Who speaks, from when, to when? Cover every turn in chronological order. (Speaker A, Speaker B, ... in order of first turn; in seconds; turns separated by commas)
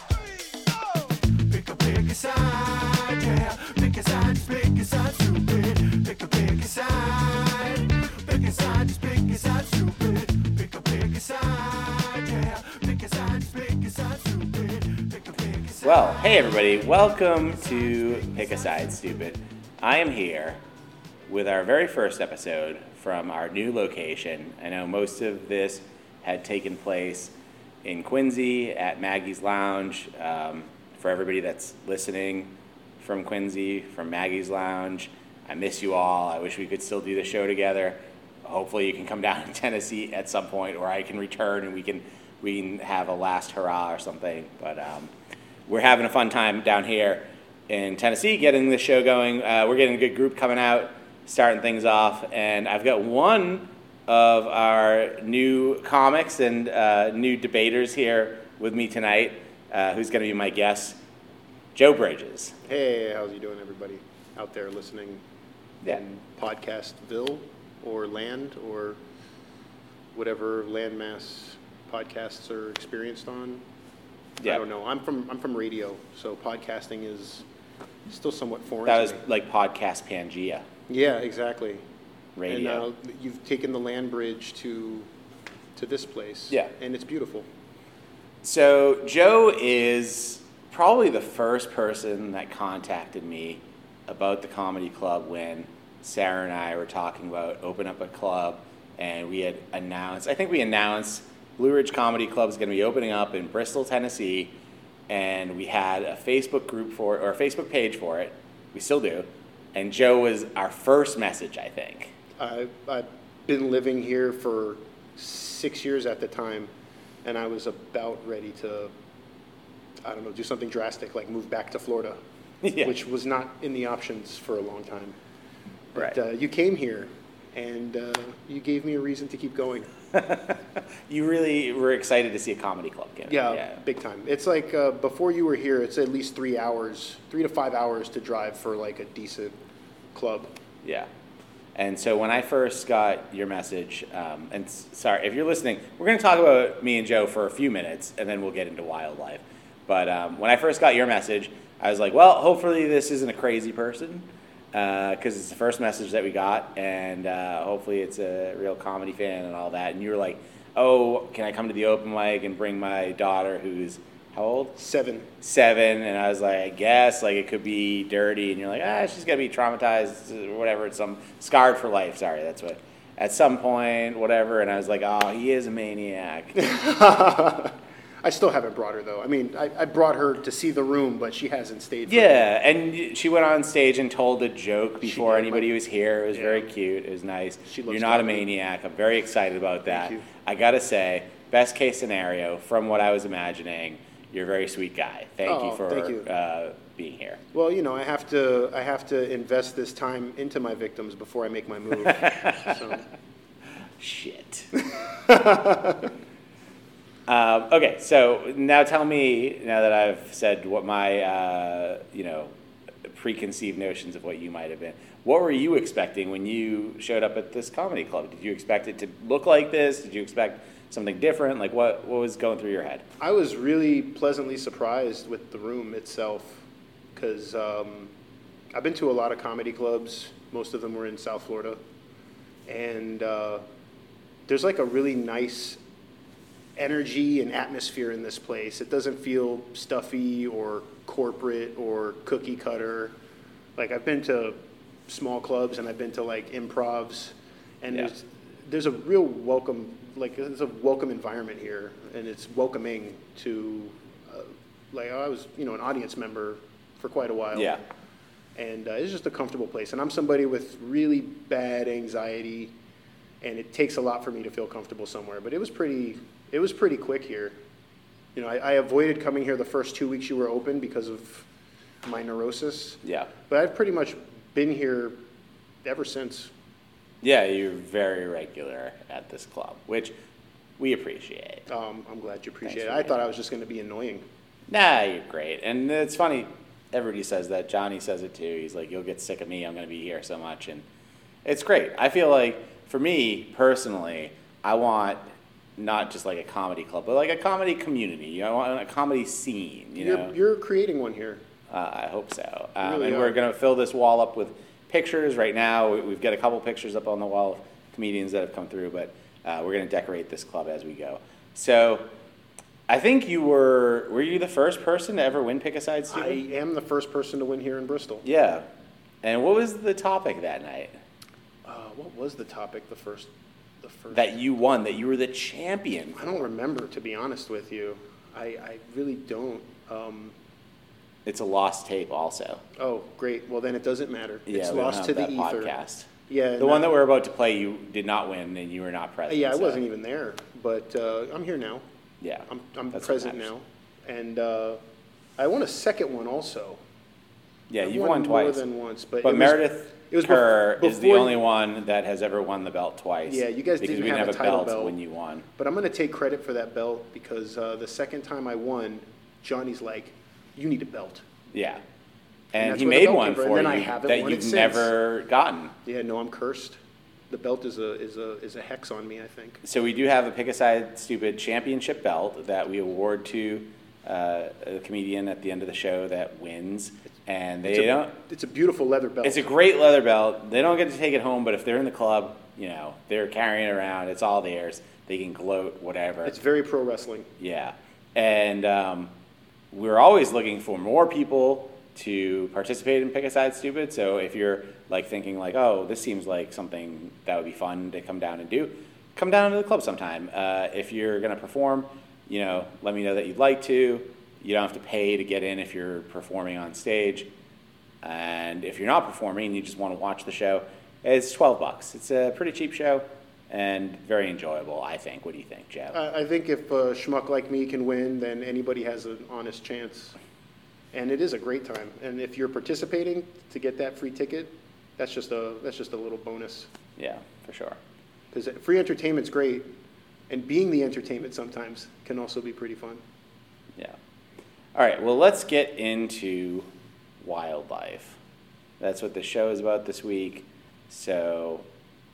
Speaker A: 1.7-4.6, Speaker B: 15.2-20.6, Speaker B: 21.2-45.1, Speaker B: 45.6-61.0, Speaker B: 61.7-62.6, Speaker C: 62.6-65.2, Speaker C: 65.8-69.0, Speaker C: 70.1-73.6, Speaker B: 74.4-74.6, Speaker C: 74.4-77.4, Speaker C: 78.1-79.2, Speaker B: 78.8-80.7, Speaker C: 80.9-81.8, Speaker B: 82.3-82.9, Speaker C: 82.5-85.1, Speaker C: 85.8-87.5, Speaker B: 88.4-104.6, Speaker B: 105.1-112.2, Speaker C: 112.4-116.7, Speaker C: 117.2-118.9, Speaker C: 120.0-122.2, Speaker B: 122.6-123.0, Speaker C: 122.8-125.2, Speaker C: 125.9-129.9, Speaker B: 130.1-133.8, Speaker C: 133.2-139.6, Speaker C: 140.1-140.5, Speaker B: 140.8-141.1, Speaker B: 141.7-164.8, Speaker C: 164.8-165.3, Speaker B: 165.4-176.6, Speaker C: 176.5-182.5, Speaker B: 182.1-197.4, Speaker C: 185.0-185.7, Speaker C: 186.3-186.7, Speaker C: 187.7-188.4, Speaker C: 189.9-190.3, Speaker C: 195.4-196.3, Speaker C: 197.5-203.1, Speaker B: 202.0-202.9, Speaker B: 203.9-204.7, Speaker C: 204.8-206.1, Speaker B: 207.3-223.1, Speaker C: 223.2-228.1, Speaker C: 228.7-231.8, Speaker C: 232.7-233.7, Speaker C: 234.5-235.8, Speaker C: 236.8-243.2, Speaker C: 243.8-257.8, Speaker B: 257.5-257.8, Speaker C: 258.6-262.7, Speaker C: 263.4-267.6, Speaker C: 268.3-271.5, Speaker C: 272.0-275.2, Speaker B: 273.0-273.3, Speaker C: 275.8-276.5, Speaker B: 277.2-280.2, Speaker B: 280.8-281.7, Speaker C: 281.7-284.3, Speaker B: 282.6-283.2, Speaker B: 284.7-290.9, Speaker B: 291.4-300.4, Speaker C: 299.9-301.4, Speaker B: 301.7-312.1, Speaker C: 302.8-303.4, Speaker B: 312.9-316.4, Speaker C: 316.1-318.2, Speaker B: 318.2-318.7, Speaker B: 319.2-321.0, Speaker C: 321.6-324.3, Speaker B: 324.1-326.5, Speaker C: 326.1-330.4, Speaker B: 331.2-332.6, Speaker C: 332.8-335.7, Speaker B: 334.5-339.9, Speaker C: 336.3-337.0, Speaker C: 339.3-341.9, Speaker B: 342.2-343.5, Speaker C: 342.5-344.8, Speaker C: 345.4-346.8, Speaker B: 347.7-348.6, Speaker C: 347.8-351.4, Speaker B: 349.2-355.5, Speaker C: 353.2-355.0, Speaker C: 355.5-361.2, Speaker B: 361.5-361.8, Speaker B: 362.5-365.8, Speaker C: 362.6-364.9, Speaker C: 365.8-366.8, Speaker C: 367.3-369.6, Speaker B: 369.6-378.1, Speaker C: 377.6-379.5, Speaker B: 379.2-386.4, Speaker C: 386.2-387.3, Speaker B: 387.4-389.1, Speaker B: 389.7-407.3, Speaker B: 408.0-416.0, Speaker C: 415.9-420.2, Speaker C: 420.9-426.7, Speaker B: 426.9-427.8, Speaker C: 428.3-429.8, Speaker C: 430.3-433.0, Speaker B: 434.7-438.2, Speaker B: 438.8-441.7